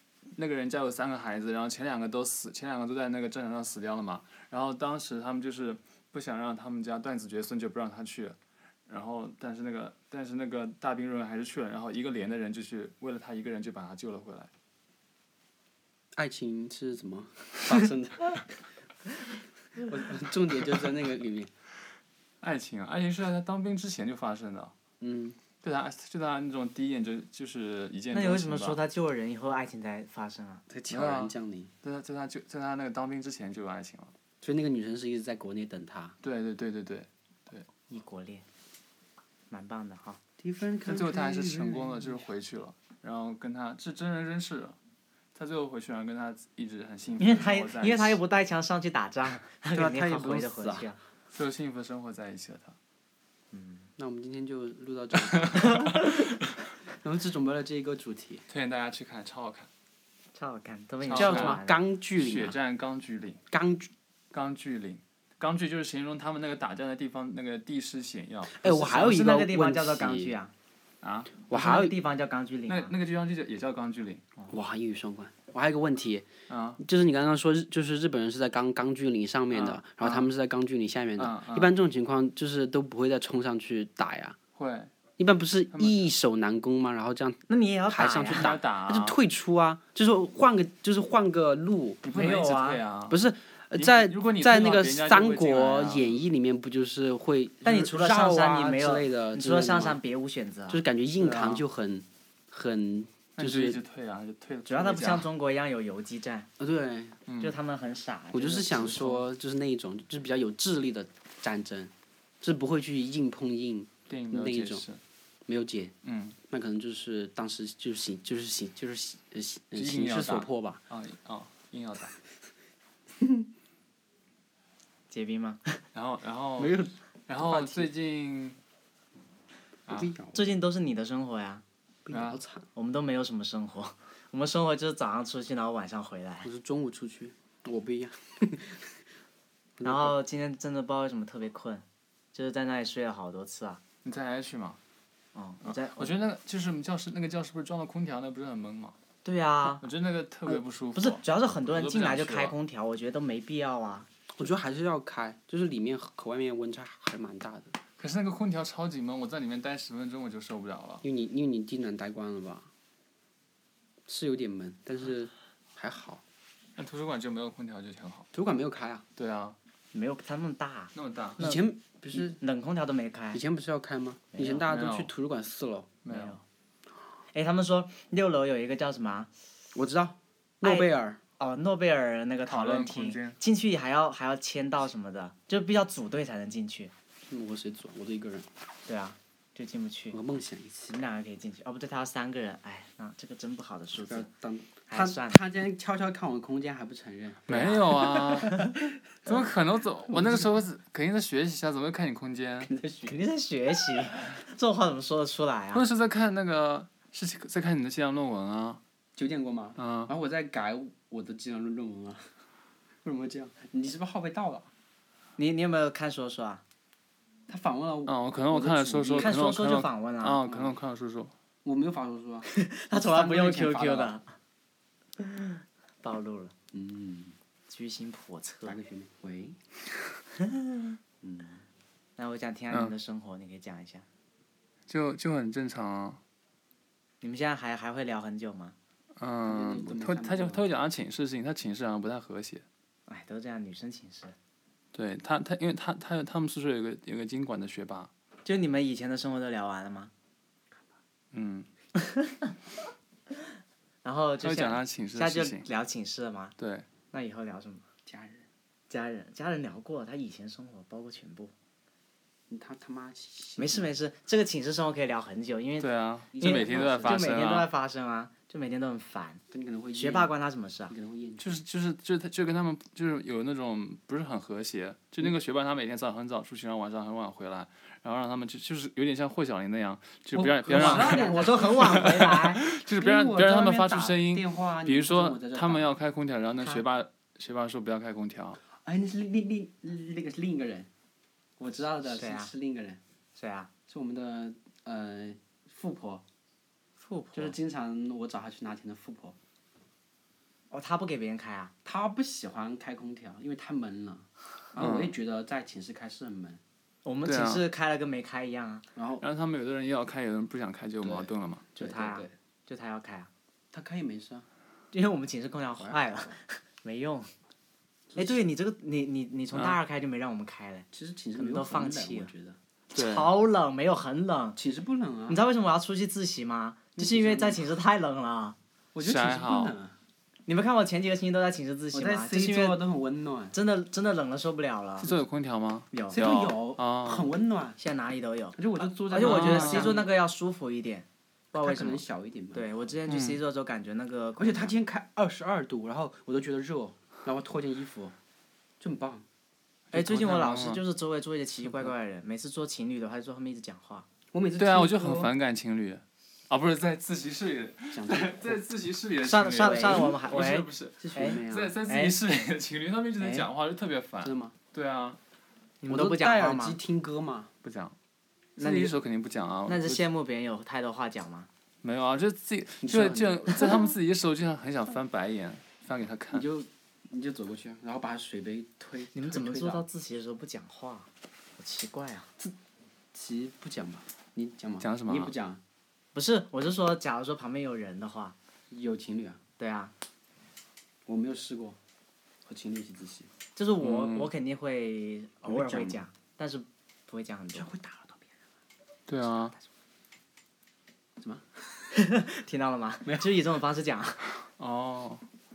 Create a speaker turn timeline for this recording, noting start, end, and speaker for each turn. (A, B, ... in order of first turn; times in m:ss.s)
0:00.3-0:08.4 A
0:08.9-0:14.5 A
0:16.1-0:18.5 B
0:19.8-0:21.5 B
0:22.4-0:24.7 A
0:25.0-0:25.4 B
0:25.6-0:28.8 A
0:28.1-0:30.6 C
0:30.7-0:31.7 B
0:30.9-0:34.1 A
0:34.4-0:36.2 B
0:36.2-0:37.6 A
0:37.9-0:38.4 C
0:39.5-0:40.2 C
0:40.4-0:42.2 B
0:40.8-0:44.8 A
0:45.3-0:48.2 A
0:47.2-0:51.0 C
0:49.7-0:50.9 B
0:51.3-0:52.8 A
0:53.5-0:53.9 C
0:54.0-0:56.1 B
0:55.2-0:56.2 A
0:55.8-0:56.1 C
0:56.9-0:58.5 B
0:58.5-0:59.7 A
1:00.3-1:01.8 C
1:01.0-1:01.6 A
1:01.1-1:02.6 B
1:02.1-1:03.4 A
1:03.5-1:03.9 B
1:04.3-1:09.0 A
1:08.5-1:10.4 B
1:08.7-1:10.5 C
1:11.0-1:11.5 A
1:11.5-1:12.0 B
1:11.5-1:12.9 C
1:12.7-1:14.3 A
1:14.5-1:24.4 B
1:16.5-1:16.8 A
1:19.5-1:20.3 A
1:21.2-1:21.8 A
1:24.6-1:24.9 A
1:25.2-1:32.0 B
1:25.7-1:26.0 A
1:27.5-1:28.5 C
1:28.3-1:29.2 A
1:32.0-1:33.2 A
1:32.1-1:32.8 C
1:33.1-1:40.0 B
1:33.7-1:36.2 A
1:37.6-1:40.8 C
1:40.7-1:43.8 B
1:41.2-1:41.6 A
1:43.3-1:45.3 A
1:44.7-1:46.5 C
1:46.6-1:47.2 B
1:47.3-1:47.6 A
1:47.4-1:49.3 C
1:48.3-1:54.8 B
1:54.1-1:55.0 A
1:55.5-1:55.9 B
1:56.0-1:56.4 A
1:56.5-2:00.8 B
1:59.7-2:02.1 A
2:03.2-2:03.4 B
2:05.1-2:05.8 C
2:05.9-2:08.6 A
2:06.6-2:07.9 B
2:09.9-2:10.1 A
2:09.9-2:10.5 B
2:10.3-2:11.6 C
2:12.0-2:12.7 B
2:12.1-2:12.4 A
2:12.8-2:16.5 C
2:16.4-2:19.0 B
2:19.8-2:20.2 B
2:19.8-2:23.8 C
2:24.0-2:24.8 A
2:25.3-2:26.1 C
2:25.6-2:29.0 A
2:29.2-2:29.8 C
2:29.8-2:32.5 A
2:30.5-2:34.1 C
2:34.4-2:37.8 B
2:38.0-2:41.0 A
2:41.0-2:42.7 B
2:44.1-2:46.2 B
2:46.8-2:48.3 A
2:48.3-2:49.0 B
2:49.2-2:49.6 A
2:49.9-2:53.4 C
2:50.9-2:51.5 A
2:51.4-2:52.4 B
2:53.3-2:56.0 B
2:54.3-2:54.6 C
2:54.7-2:55.1 A
2:56.0-2:56.4 A
2:56.1-2:56.4 C
2:57.3-2:59.3 C
2:59.7-3:01.2 B
3:00.6-3:06.9 C
3:02.5-3:03.4 A
3:07.3-3:08.5 B
3:08.9-3:10.2 C
3:10.1-3:11.0 B
3:10.9-3:14.3 C
3:14.1-3:19.4 B
3:14.9-3:15.4 C
3:17.5-3:18.6 A
3:17.5-3:18.7 C
3:19.2-3:22.7 A
3:20.1-3:20.5 B
3:22.6-3:23.2 B
3:23.1-3:25.8 C
3:25.7-3:28.8 A
3:29.2-3:32.3 B
3:29.8-3:30.1 A
3:33.0-3:34.7 B
3:35.4-3:36.6 C
3:37.5-3:39.4 B
3:38.1-3:41.3 A
3:39.2-3:40.4 C
3:40.4-3:40.8 B
3:41.6-3:44.2 B
3:42.5-3:44.3 C
3:45.2-3:46.5 C
3:46.7-3:47.3 B
3:47.7-3:48.8 C
3:48.6-3:49.6 B
3:50.4-3:51.0 C
3:51.2-3:51.6 B
3:52.2-3:54.0 C
3:54.9-3:56.2 A
3:57.2-3:58.7 C
3:59.2-4:02.6 A
3:59.4-4:00.6 B
4:03.1-4:04.3 C
4:04.9-4:08.1 A
4:08.4-4:10.1 C
4:11.3-4:11.7 A
4:11.9-4:12.5 C
4:14.0-4:16.5 C
4:14.4-4:15.7 A
4:16.6-4:16.8 A
4:17.1-4:17.8 C
4:18.0-4:18.5 B
4:18.9-4:21.5 C
4:22.5-4:23.9 B
4:23.6-4:29.4 C
4:25.8-4:27.7 A
4:26.3-4:27.3 B
4:29.5-4:30.3 B
4:29.9-4:30.9 C
4:30.9-4:31.6 B
4:31.4-4:48.6 A
4:40.3-4:45.9 B
4:40.7-4:42.6 C
4:48.7-4:50.9 B
4:51.6-4:53.0 B
4:52.0-4:52.5 C
4:53.3-4:53.7 C
4:53.9-4:56.2 B
4:57.0-4:57.6 C
4:57.3-4:59.4 B
5:00.7-5:01.7 C
5:01.8-5:06.6 B
5:04.8-5:05.2 A
5:07.0-5:08.8 C
5:07.2-5:07.6 A
5:08.9-5:09.2 B
5:09.2-5:11.6 A
5:11.0-5:12.3 B
5:11.7-5:13.3 C
5:13.7-5:14.5 B
5:14.9-5:17.3 C
5:15.8-5:16.3 B
5:18.1-5:18.4 B
5:18.2-5:22.3 C
5:19.5-5:19.8 A
5:20.9-5:22.6 B
5:22.9-5:23.3 A
5:22.9-5:24.6 C
5:24.6-5:25.4 B
5:25.3-5:28.6 C
5:27.0-5:27.7 B
5:28.9-5:29.9 B
5:29.0-5:29.7 A
5:30.5-5:32.8 C
5:31.9-5:33.5 B
5:33.5-5:35.1 C
5:35.0-5:37.3 A
5:35.9-5:36.2 C
5:36.1-5:37.8 B
5:37.8-5:42.0 C
5:38.6-5:40.1 B
5:39.2-5:40.0 A
5:41.6-5:42.9 B
5:42.5-5:44.8 C
5:43.1-5:43.4 A
5:44.4-5:48.1 B
5:48.8-5:49.2 B
5:49.9-5:50.8 A
5:49.9-5:54.0 C
5:54.3-5:55.3 B
5:54.6-6:05.2 A
5:57.9-5:58.6 B
5:59.2-6:02.2 C
5:59.5-6:00.2 B
6:01.0-6:01.8 B
6:03.2-6:03.5 C
6:04.2-6:04.6 B
6:05.8-6:06.8 C
6:05.9-6:07.5 B
6:07.6-6:07.9 A
6:08.6-6:10.0 A
6:08.6-6:08.9 C
6:09.7-6:11.5 C
6:11.8-6:16.4 A
6:12.8-6:13.9 B
6:16.3-6:19.8 B
6:19.1-6:22.3 C
6:23.1-6:25.6 B
6:24.8-6:25.3 A
6:26.1-6:28.4 C
6:28.7-6:29.4 B
6:29.6-6:29.9 C
6:31.1-6:31.8 B
6:32.4-6:33.3 B
6:33.6-6:37.7 C
6:33.8-6:34.3 A
6:35.4-6:36.0 B
6:37.5-6:38.3 B
6:39.1-6:39.5 A
6:41.2-6:41.9 B
6:41.9-6:44.3 C
6:43.0-6:43.4 B
6:44.6-6:45.2 A